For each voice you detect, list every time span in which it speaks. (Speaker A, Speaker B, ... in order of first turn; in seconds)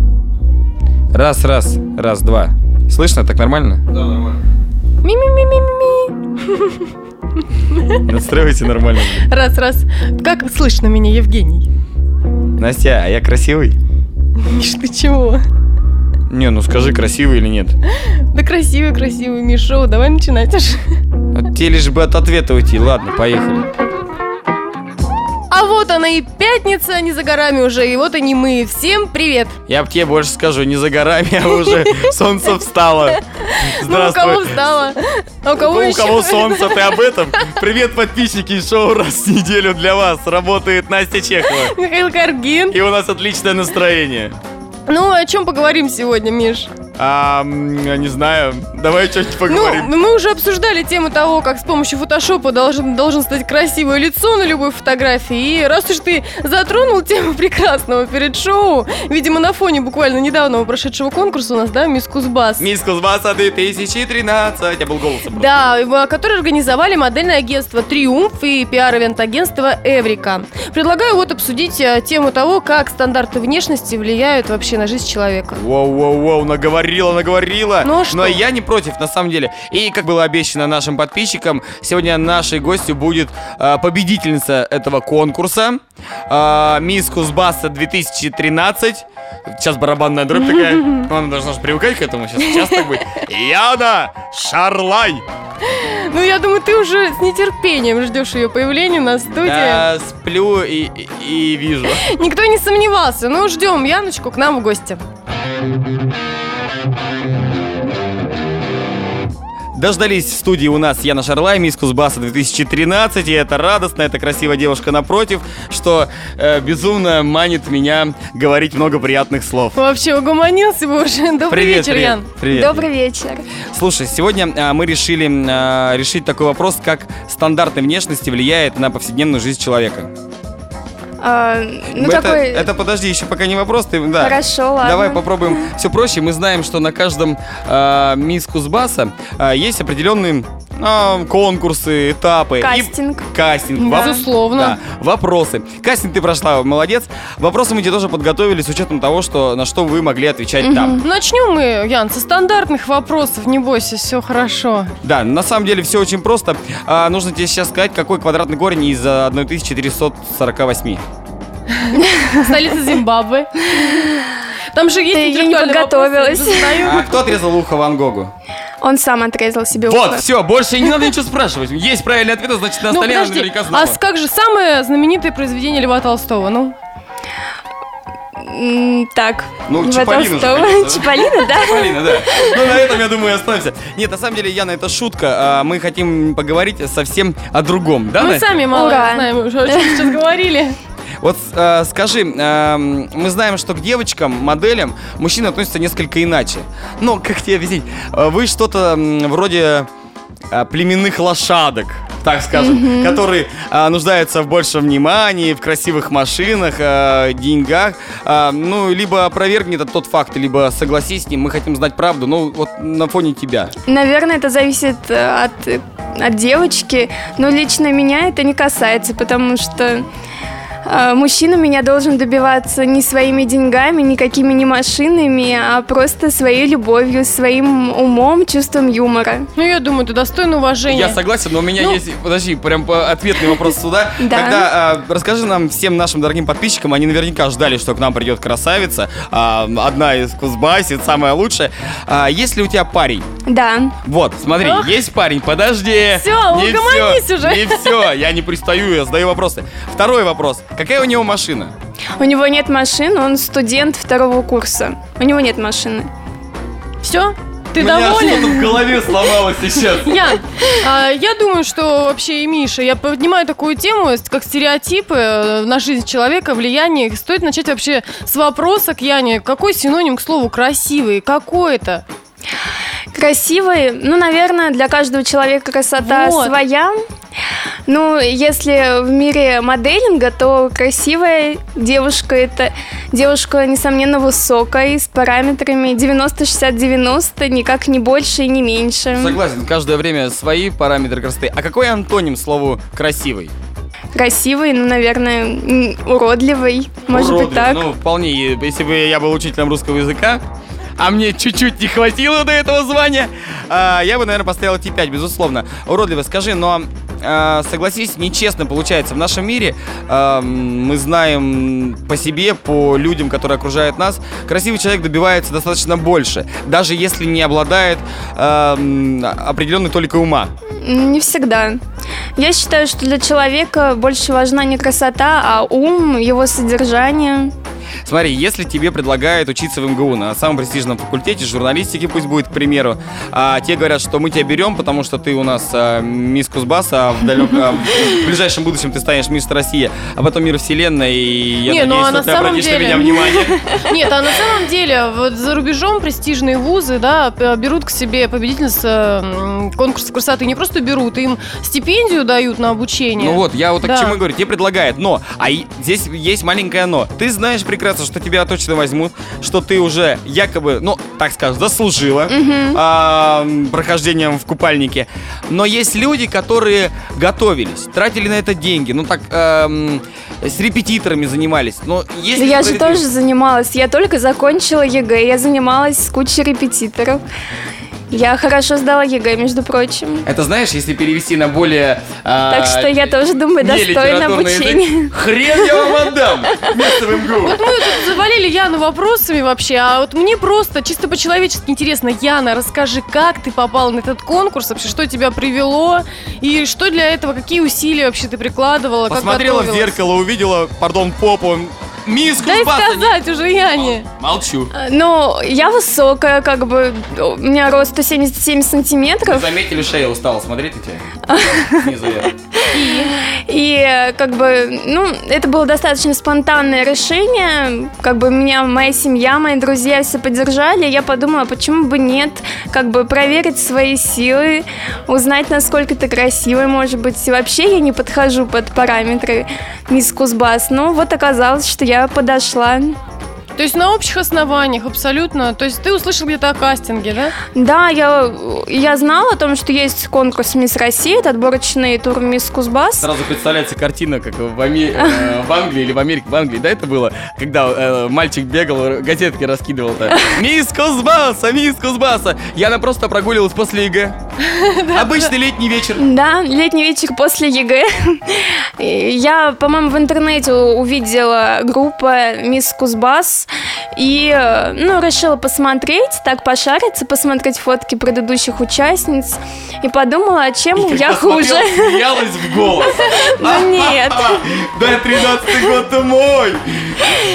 Speaker A: 1.1-4.3, 8.0-9.3, 12.6-13.8, 16.3-17.7, 21.3-23.7, 29.7-34.6, 35.6-41.8, 42.7-44.4, 47.0-49.9, 62.6-65.5, 75.5-95.2, 99.4-102.1, 109.7-119.8, 121.5-122.9, 123.7-130.1, 131.9-151.0, 155.0-161.0, 166.8-168.3, 169.9-174.0, 179.7-188.5, 191.2-199.9, 200.5-213.7, 230.9-243.3, 244.0-251.7, 257.8-260.2, 289.1-293.5, 297.1-300.4, 301.0-320.5, 328.1-343.8, 353.2-373.0, 380.2-387.6, 399.1-403.2, 403.7-404.7, 409.2-411.1, 411.6-412.3, 443.0-454.2, 454.9-456.1, 470.8-477.1
Speaker B: 5.0-8.0, 9.2-11.7, 14.4-15.4, 18.0-20.8, 25.5-29.6, 33.3-37.0, 41.5-42.8, 44.9-46.7, 49.5-62.7, 65.3-75.6, 77.8-78.4, 95.6-99.8, 102.0-105.0, 119.8-122.3, 143.8-144.8, 151.0-154.9, 161.8-164.1, 164.7-167.3, 172.9-176.8, 188.2-190.8, 229.6-231.2, 244.6-244.9, 246.1-248.1, 257.0-259.1, 260.0-272.1, 276.0-276.6, 341.7-354.2, 387.4-400.0, 402.4-404.1, 412.7-413.1, 433.6-437.4, 454.4-455.3
Speaker C: 122.5-123.5, 131.2-132.7, 134.2-135.6, 142.6-143.3, 150.6-151.0, 161.9-162.6, 163.8-164.1, 165.1-166.9, 168.8-170.2, 178.4-182.6, 188.7-190.1, 202.5-203.2, 213.9-220.1, 220.8-229.5, 234.2-234.7, 243.5-244.0, 252.2-256.1, 273.1-276.9, 277.9-289.4, 294.1-297.8, 320.8-321.8, 322.4-327.5, 362.3-362.8, 372.4-377.2, 378.1-380.3, 382.5-385.1, 404.7-409.5, 411.3-411.9, 412.6-433.0, 437.5-443.1, 456.0-472.1, 472.6-474.4